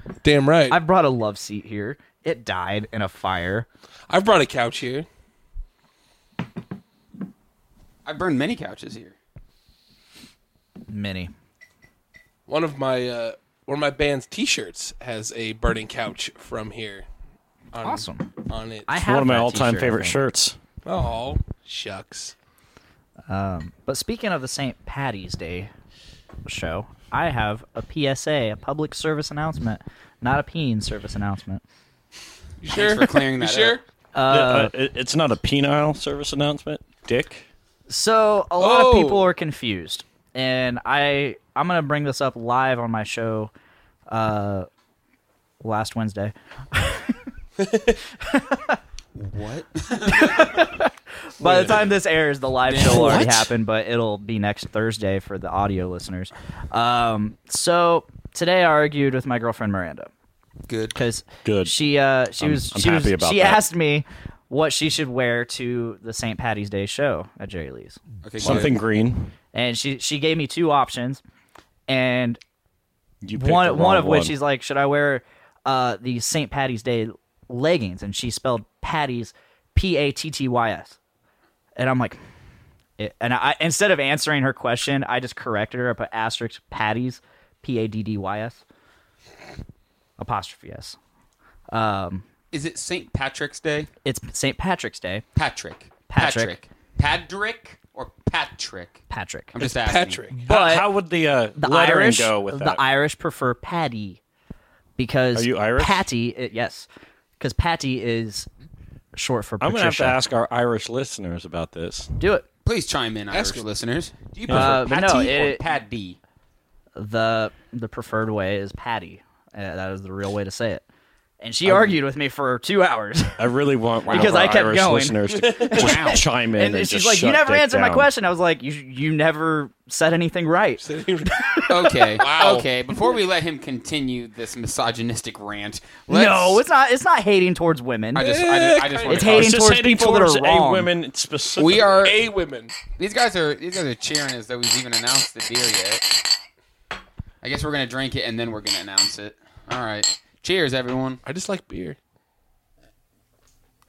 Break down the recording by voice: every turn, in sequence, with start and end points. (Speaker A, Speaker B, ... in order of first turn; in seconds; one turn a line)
Speaker A: 0.2-0.8
Speaker B: 0.7-3.7
Speaker A: 4.1-5.0
Speaker C: 8.0-9.1
Speaker B: 10.9-11.3
Speaker A: 12.5-17.1
Speaker A: 17.7-18.9
Speaker B: 17.8-18.3
Speaker B: 18.9-20.2
Speaker D: 18.9-20.6
Speaker A: 20.8-22.3
Speaker B: 23.3-25.7
Speaker B: 26.4-31.6
Speaker A: 32.6-33.8
Speaker C: 32.7-33.8
Speaker B: 34.1-34.7
Speaker D: 34.3-37.5
Speaker B: 37.9-43.5
Speaker A: 38.6-39.3
Speaker B: 44.1-44.7
Speaker B: 45.6-47.2
Speaker A: 47.6-47.9
Speaker B: 48.2-48.8
Speaker C: 49.1-50.7
Speaker B: 50.1-60.1
Speaker A: 51.4-51.8
Speaker C: 52.7-53.4
Speaker D: 52.9-53.4
Speaker C: 60.7-61.0
Speaker B: 60.9-68.0
Speaker D: 61.4-61.7
Speaker D: 62.4-63.6
Speaker C: 68.2-68.8
Speaker D: 68.4-69.3
Speaker B: 69.5-71.2
Speaker B: 71.9-72.4
Speaker D: 73.2-74.3
Speaker B: 73.3-81.0
Speaker B: 81.8-82.2
Speaker B: 83.0-88.6
Speaker B: 90.2-91.0
Speaker B: 91.7-92.2
Speaker C: 92.5-93.9
Speaker B: 94.0-95.2
Speaker C: 95.3-99.0
Speaker B: 96.1-96.6
Speaker B: 99.1-99.6
Speaker C: 99.5-100.2
Speaker A: 99.6-100.4
Speaker B: 100.4-100.9
Speaker D: 100.4-102.8
Speaker B: 101.6-104.2
Speaker B: 105.0-106.9
Speaker D: 105.3-106.0
Speaker B: 107.4-108.5
Speaker B: 109.1-110.2
Speaker D: 109.6-112.1
Speaker B: 112.2-112.4
Speaker C: 112.6-116.2
Speaker A: 113.3-113.7
Speaker D: 114.5-114.9
Speaker B: 114.5-115.6
Speaker B: 117.0-120.8
Speaker B: 121.4-123.4
Speaker D: 121.6-122.0
Speaker D: 123.4-128.1
Speaker C: 124.0-124.6
Speaker B: 124.1-132.2
Speaker C: 125.7-126.2
Speaker A: 130.8-131.6
Speaker C: 131.7-136.6
Speaker A: 132.2-132.7
Speaker B: 136.1-138.3
Speaker A: 138.1-139.4
Speaker C: 138.1-139.6
Speaker B: 139.1-140.9
Speaker D: 139.3-142.1
Speaker C: 141.6-142.2
Speaker A: 141.9-142.7
Speaker C: 142.9-146.1
Speaker C: 147.4-151.2
Speaker A: 151.2-152.0